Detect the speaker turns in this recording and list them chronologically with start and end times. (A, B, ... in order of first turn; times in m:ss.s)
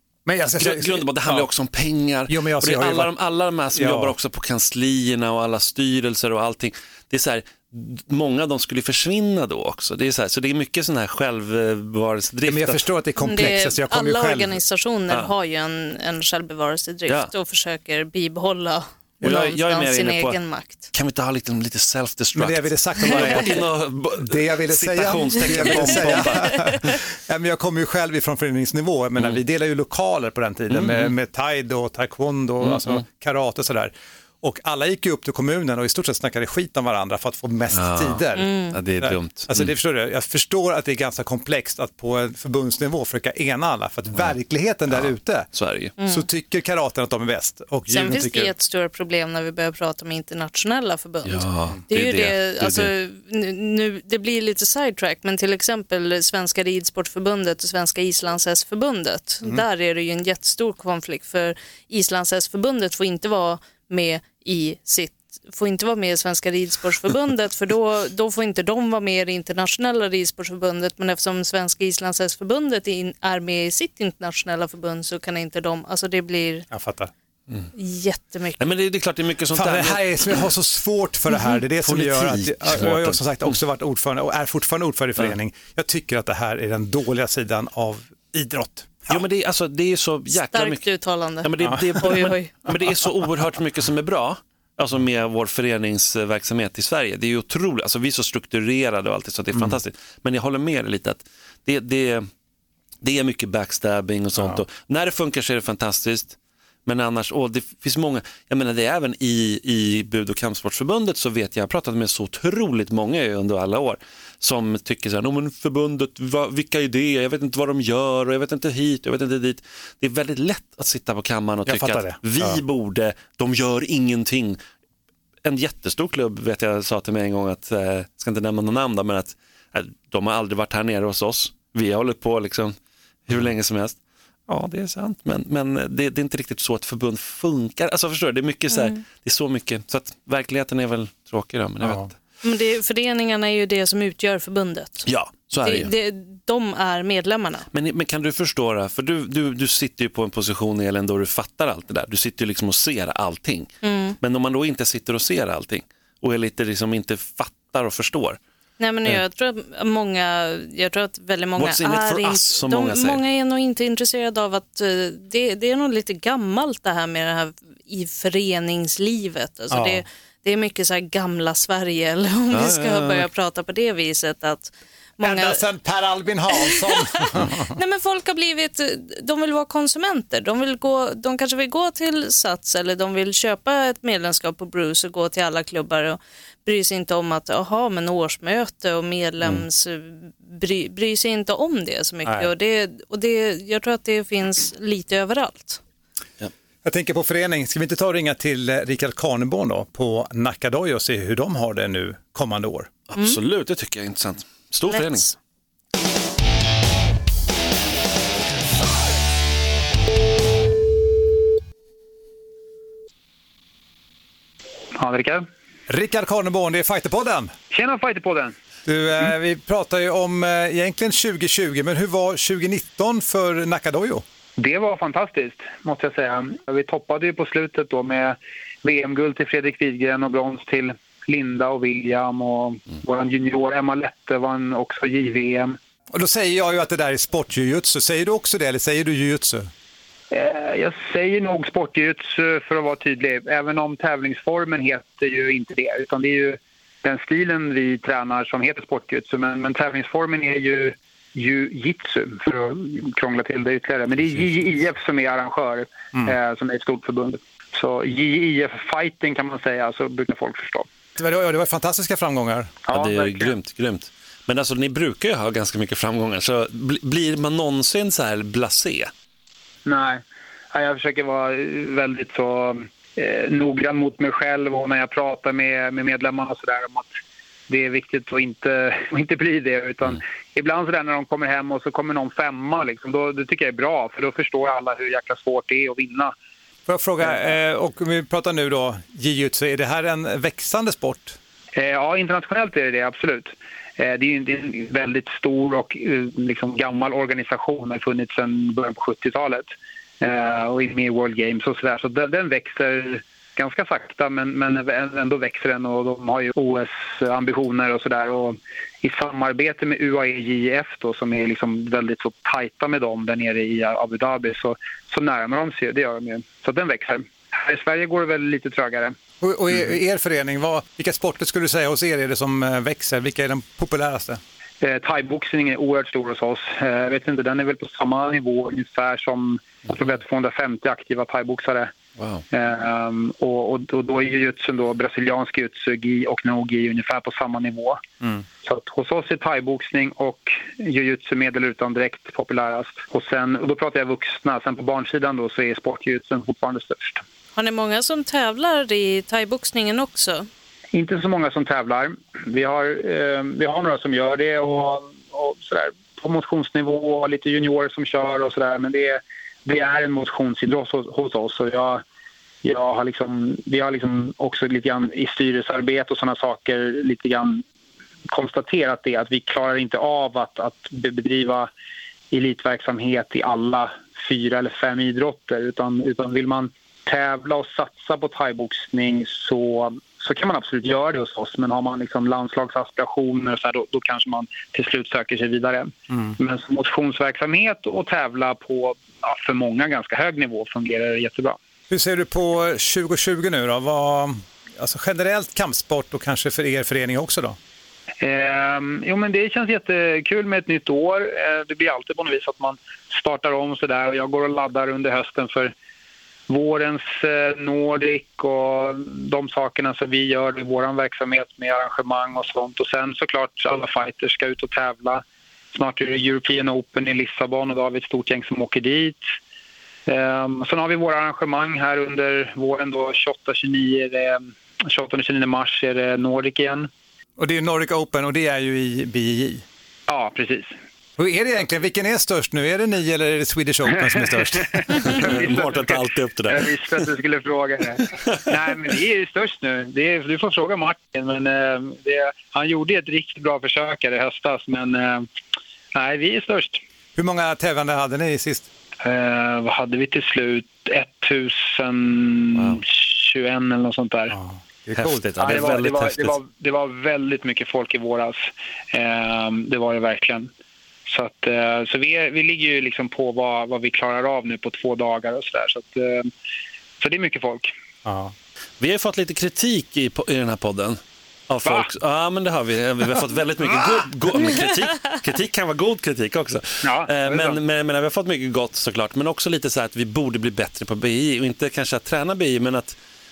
0:00.2-0:01.5 A
0:00.6-0:12.8 B
0:02.3-0:03.1 A
0:03.7-0:04.1 A
0:12.4-0:14.6 A
0:13.2-0:20.9 C
0:19.2-0:20.4 B
0:20.9-0:27.0 B
0:22.3-0:23.6 A
0:24.2-0:48.5 A
0:30.7-0:31.1 B
0:32.6-0:33.0 B
0:37.7-0:39.7 B
0:38.4-0:38.7 C
0:44.9-0:45.9 B
0:46.0-0:46.2 C
0:47.9-1:16.7 C
0:51.2-0:52.9 B
1:16.7-1:17.1 A
1:17.8-1:18.6 C
1:18.6-1:20.4 B
1:19.5-1:29.2 A
1:21.8-1:23.6 B
1:29.1-1:30.9 B
1:30.4-1:32.7 C
1:31.4-1:42.3 B
1:43.0-2:04.6 B
2:01.6-2:02.6 A
2:05.4-2:12.7 B
2:13.3-2:14.0 B
2:14.5-2:22.1 B
2:22.4-2:25.1 C
2:25.0-2:25.9 B
2:25.6-2:27.7 C
2:27.7-2:33.7 B
2:33.8-2:34.2 C
2:34.2-2:38.4 B
2:38.8-2:55.6 C
2:41.6-2:43.2 B
2:49.7-2:50.0 A
2:52.5-2:53.3 B
2:55.2-2:57.7 A
2:56.6-3:15.8 C
3:16.8-3:22.9 A
3:23.1-3:25.3 B
3:24.9-3:25.3 C
3:34.9-3:35.5 D
3:35.9-3:37.5 A
3:37.7-3:38.5 D
3:38.8-3:44.2 A
3:44.6-3:55.8 D
3:56.1-3:59.7 A
4:00.3-4:20.9 D
4:21.2-4:22.8 A
4:22.8-4:23.5 D
4:22.9-4:29.1 B
4:29.8-4:37.2 D
4:37.7-4:46.3 D
4:46.9-4:51.4 A
4:51.7-5:19.1 D
5:19.4-5:24.4 A
5:24.8-5:31.9 D
5:32.2-5:32.4 B
5:32.5-5:38.0 D
5:38.6-5:47.2 D
5:47.6-5:50.5 C
5:50.9-6:02.0 D
6:02.6-6:07.6 D
6:08.3-6:11.7 D
6:12.3-6:31.6 D
6:31.9-6:37.6 A
6:38.2-6:45.7 D
6:46.5-6:59.2 D
7:00.1-7:06.9 D
7:07.4-7:09.6 A
7:10.1-7:10.7 D
7:11.2-7:14.8 A
7:14.8-7:25.2 D
7:15.0-7:16.7 B
7:25.9-7:26.8 D
7:27.2-7:28.7 A
7:29.0-7:34.3 D
7:32.5-7:32.8 B
7:34.3-7:35.6 A
7:35.0-7:36.4 B
7:35.4-7:40.5 D
7:41.1-7:46.3 D
7:47.0-7:47.7 D
7:48.0-7:48.3 A
7:48.8-8:03.0 B
7:56.8-7:57.6 D